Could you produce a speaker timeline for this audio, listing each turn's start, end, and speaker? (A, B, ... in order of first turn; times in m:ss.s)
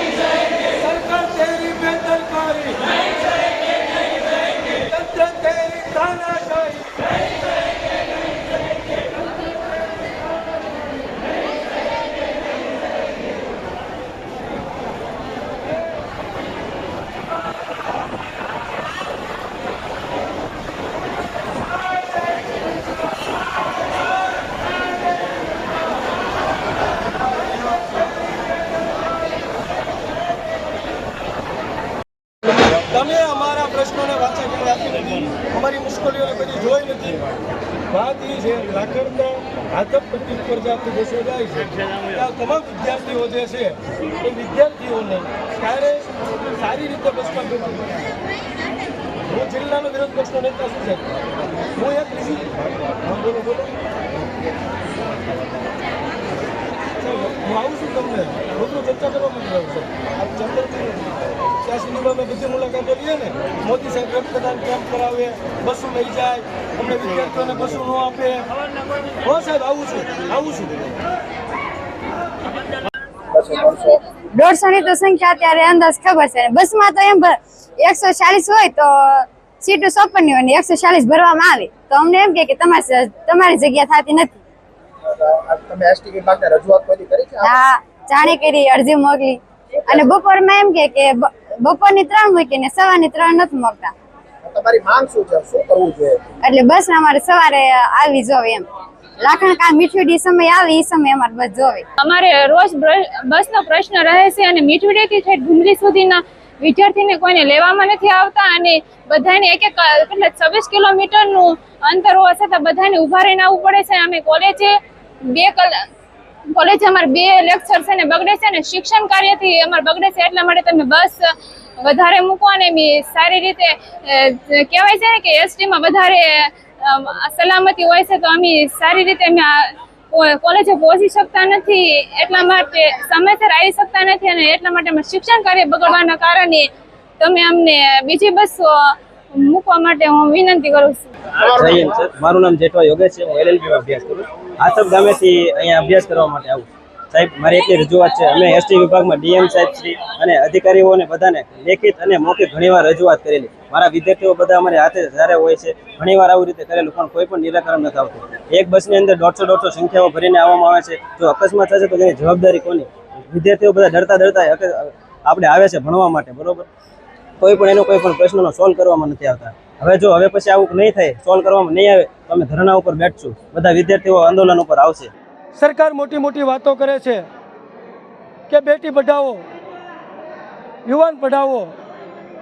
0:00.7-0:02.9 A
0:04.7-0:07.0 A
0:32.9-0:37.2 A
0:37.9-0:46.1 A
0:46.6-0:48.0 A
0:49.3-0:51.2 A
0:51.8-0:53.8 A
0:57.0-1:01.0 A
1:01.6-1:08.5 A
1:09.2-1:10.8 A
1:13.3-1:14.0 B
1:14.3-1:24.4 C
1:25.2-1:27.6 B
1:27.4-1:33.9 C
1:34.5-1:36.3 B
1:36.4-1:38.7 C
1:39.2-1:41.8 C
1:42.0-1:54.8 D
1:55.3-1:55.9 D
1:56.5-2:16.7 D
2:17.2-2:21.1 D
2:21.4-2:46.7 E
2:21.4-2:21.9 B
2:47.4-2:55.1 E
2:55.6-2:57.3 A
2:58.5-2:59.4 A
3:00.9-3:01.7 A